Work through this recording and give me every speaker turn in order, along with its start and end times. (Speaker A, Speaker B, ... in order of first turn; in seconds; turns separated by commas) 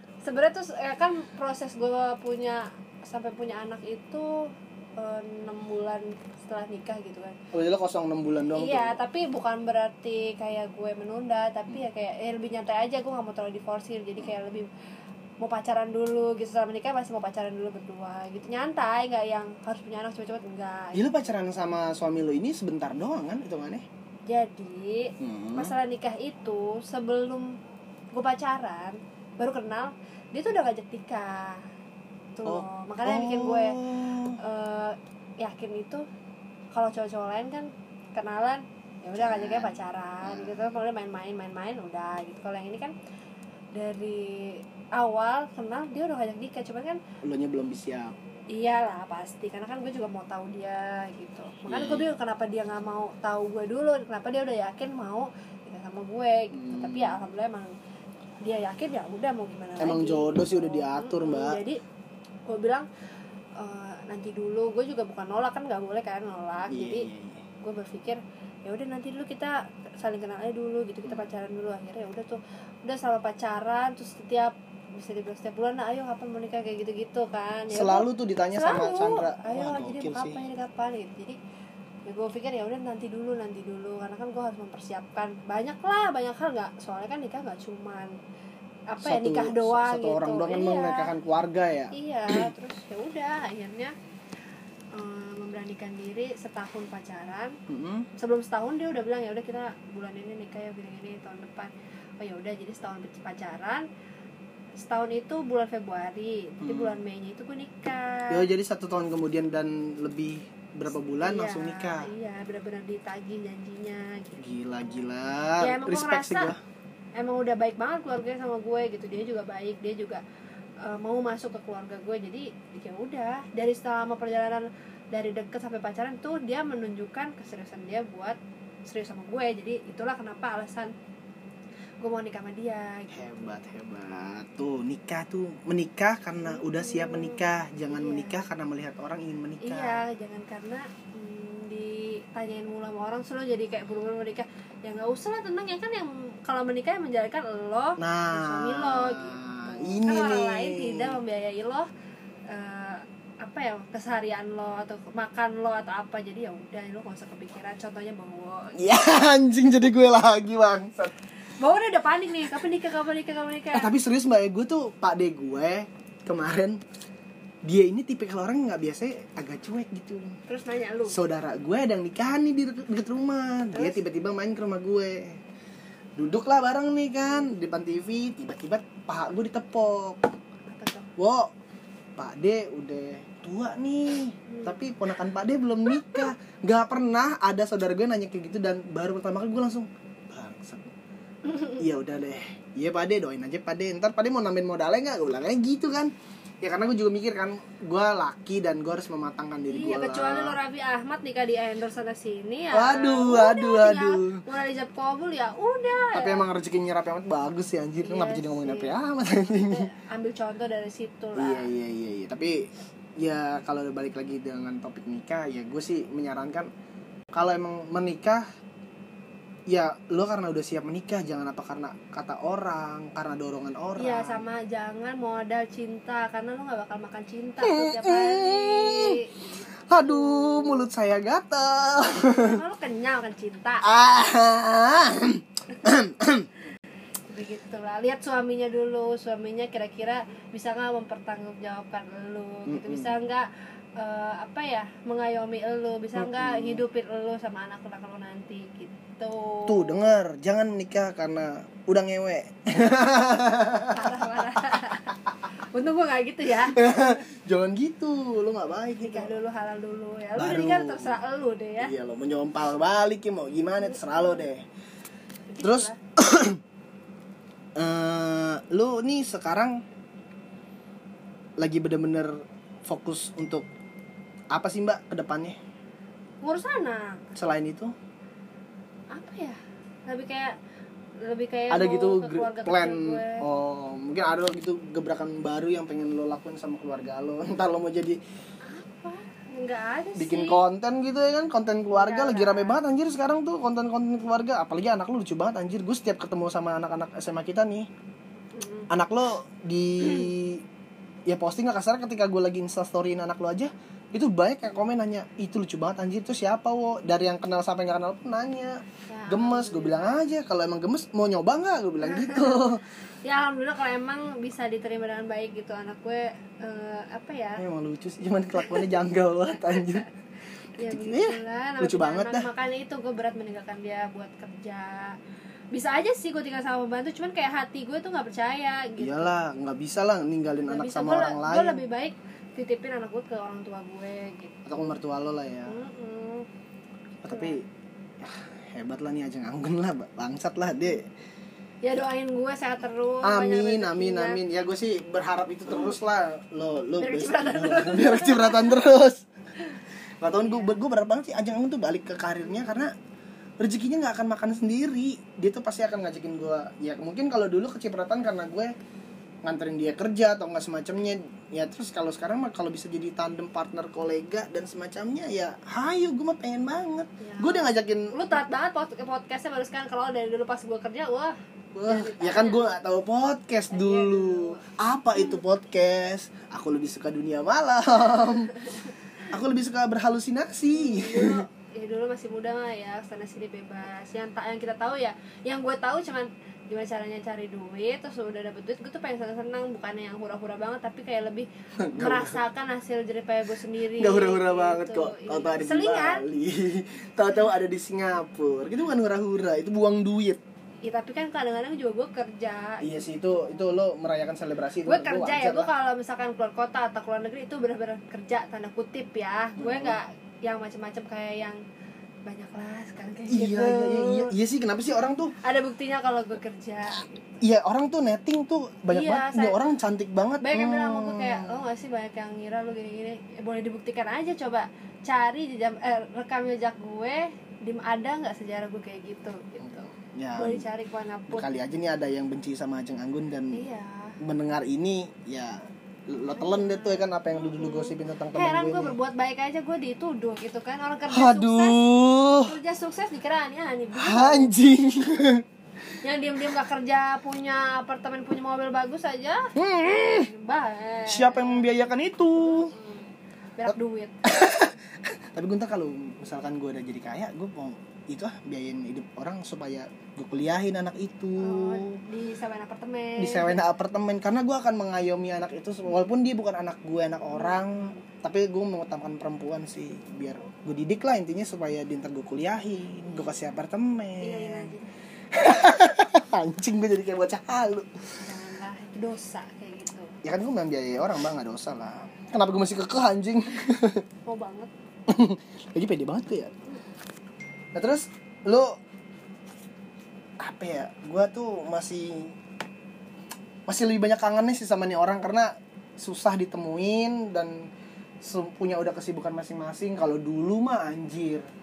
Speaker A: 0.2-7.4, Speaker B: 7.5-9.0, Speaker A: 8.5-14.7, Speaker A: 15.4-21.1, Speaker B: 20.9-23.8, Speaker A: 24.3-27.5, Speaker B: 25.2-25.7, Speaker A: 28.1-31.6, Speaker A: 32.4-33.8, Speaker B: 32.5-34.4, Speaker A: 34.4-36.0, Speaker A: 36.7-42.9, Speaker B: 39.2-40.6, Speaker A: 43.7-47.0, Speaker B: 47.2-48.2, Speaker A: 48.5-57.7, Speaker B: 51.7-52.1, Speaker B: 56.5-57.2, Speaker A: 58.4-61.8, Speaker B: 59.8-61.6, Speaker A: 62.5-62.9, Speaker A: 63.6-67.1, Speaker B: 66.7-67.4, Speaker A: 67.6-81.4, Speaker B: 77.7-80.4, Speaker A: 82.0-88.1, Speaker A: 88.9-91.1, Speaker B: 89.0-92.5, Speaker A: 91.9-93.9, Speaker A: 94.9-97.6, Speaker B: 97.7-98.1, Speaker A: 98.2-103.8, Speaker A: 104.8-108.5, Speaker B: 106.6-107.0, Speaker B: 108.3-112.1, Speaker A: 111.2-114.4, Speaker B: 114.4-116.6, Speaker A: 115.6-116.5, Speaker A: 117.2-120.2, Speaker A: 120.8-130.9, Speaker A: 132.0-133.5, Speaker B: 133.1-140.0, Speaker A: 136.4-138.4, Speaker A: 139.6-151.9, Speaker B: 148.0-151.2, Speaker A: 152.5-158.8, Speaker B: 158.8-161.2, Speaker A: 161.6-163.9, Speaker B: 163.7-166.8, Speaker B: 167.6-170.4, Speaker A: 170.5-171.2, Speaker B: 171.1-175.4, Speaker A: 173.7-174.0, Speaker B: 176.2-180.3, Speaker A: 180.7-181.1, Speaker B: 181.2-181.5, Speaker B: 182.2-190.9, Speaker A: 184.5-184.8, Speaker B: 191.7-200.6, Speaker A: 199.7-206.4, Speaker B: 202.7-204.4, Speaker B: 206.1-209.9, Speaker A: 208.0-211.7, Speaker B: 211.3-216.7, Speaker B: 217.3-218.4, Speaker B: 219.7-224.4, Speaker A: 224.0-230.9, Speaker B: 227.6-229.2, Speaker B: 229.9-232.6, Speaker A: 232.3-233.9, Speaker B: 233.8-236.5, Speaker A: 237.3-250.1, Speaker B: 242.7-243.1, Speaker B: 246.2-246.8, Speaker B: 249.7-254.4, Speaker A: 253.9-257.1, Speaker B: 256.7-259.4, Speaker A: 259.0-261.9, Speaker B: 260.4-261.2, Speaker B: 261.8-264.6, Speaker A: 263.9-264.4, Speaker A: 265.5-266.0, Speaker B: 265.6-266.6, Speaker B: 267.8-269.8, Speaker B: 271.6-273.7, Speaker B: 274.5-275.6, Speaker A: 276.4-277.2, Speaker B: 277.3-277.9, Speaker A: 279.1-280.5, Speaker A: 281.2-283.4, Speaker B: 281.7-288.2, Speaker A: 288.6-290.6, Speaker B: 290.1-297.9, Speaker A: 291.9-292.8, Speaker A: 298.5-298.9, Speaker B: 298.9-300.6, Speaker B: 301.3-312.8, Speaker A: 309.1-310.2, Speaker A: 312.0-312.6, Speaker A: 313.2-317.6, Speaker B: 317.6-320.1, Speaker B: 320.8-322.5, Speaker A: 320.8-325.2, Speaker A: 325.7-329.3, Speaker B: 329.0-331.8, Speaker A: 330.7-334.6, Speaker B: 334.6-335.8, Speaker A: 335.7-336.5, Speaker B: 337.2-337.6, Speaker A: 337.3-337.6, Speaker B: 338.2-341.1, Speaker A: 341.8-344.4, Speaker B: 343.2-349.2, Speaker A: 347.0-348.8, Speaker B: 350.2-352.9, Speaker A: 350.4-350.8, Speaker B: 353.6-358.7, Speaker B: 359.4-368.2, Speaker A: 367.2-372.7, Speaker B: 371.7-378.5, Speaker A: 373.7-374.7, Speaker A: 378.5-378.9, Speaker B: 379.3-381.4, Speaker A: 380.7-396.2, Speaker B: 391.8-392.4, Speaker B: 394.0-400.4, Speaker A: 400.8-403.6, Speaker B: 402.8-405.7, Speaker A: 404.9-411.6, Speaker B: 409.6-410.0, Speaker A: 412.2-414.3, Speaker B: 413.3-415.3, Speaker A: 415.4-417.4, Speaker B: 417.4-421.6, Speaker A: 418.9-419.6, Speaker A: 420.4-431.5, Speaker B: 430.0-430.6, Speaker B: 431.3-433.6, Speaker A: 433.5-434.2, Speaker B: 434.2-438.9, Speaker A: 436.3-441.8, Speaker B: 441.1-442.5, Speaker A: 442.4-444.5, Speaker B: 443.9-445.4, Speaker A: 446.0-449.5, Speaker B: 449.6-450.3, Speaker A: 450.1-451.7, Speaker B: 451.1-452.7, Speaker A: 452.4-454.2, Speaker B: 454.2-462.0, Speaker A: 461.4-463.6, Speaker B: 463.2-474.7, Speaker A: 467.3-468.0, Speaker A: 474.2-474.9, Speaker B: 475.3-477.9, Speaker A: 478.2-480.2, Speaker B: 480.2-484.0, Speaker A: 484.2-484.7, Speaker B: 485.1-486.5, Speaker B: 487.7-488.7, Speaker B: 490.4-492.3, Speaker B: 493.7-497.7, Speaker B: 498.2-501.4